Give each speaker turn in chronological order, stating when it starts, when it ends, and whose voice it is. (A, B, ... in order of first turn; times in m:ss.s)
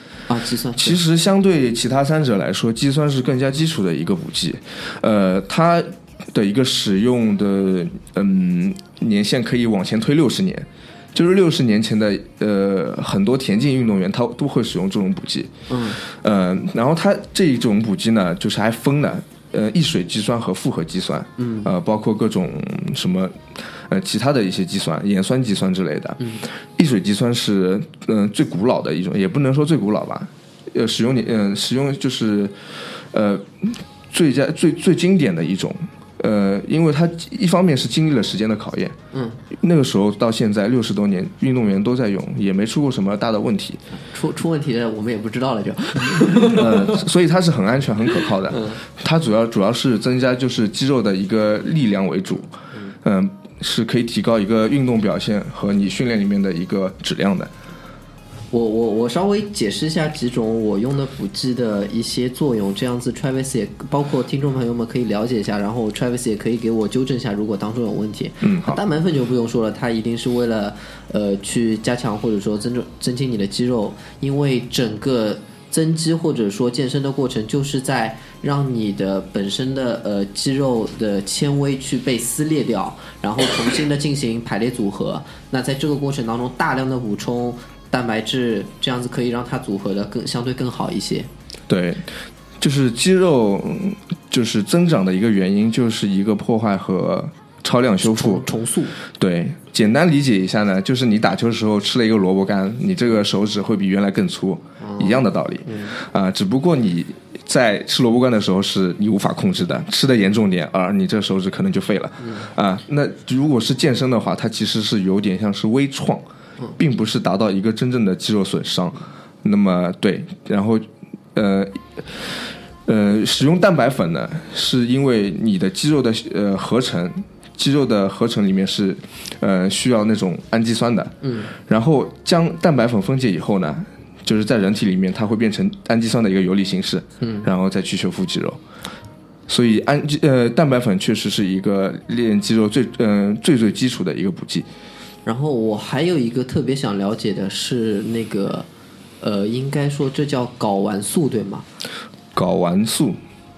0:00.3-0:01.0 A
0:00.8-0:32.6 B
0:15.7-0:16.0 A
0:21.4-0:21.7 A
0:33.1-0:39.0 B
0:39.1-0:39.4 A
0:39.5-0:43.8 B
0:44.1-0:47.0 A
0:46.5-0:57.5 B
0:48.5-0:48.8 A
0:58.5-1:31.3 A
1:08.4-1:08.8 B
1:31.7-1:38.5 B
1:38.0-1:38.9 A
1:39.1-1:56.2 B
1:44.8-1:45.9 A
1:52.2-1:52.5 A
1:56.8-2:18.6 B
2:11.2-2:11.5 A
2:17.2-2:17.5 A
2:19.5-2:24.7 B
2:25.2-2:28.7 A
2:29.2-2:31.6 A
2:32.3-2:33.2 B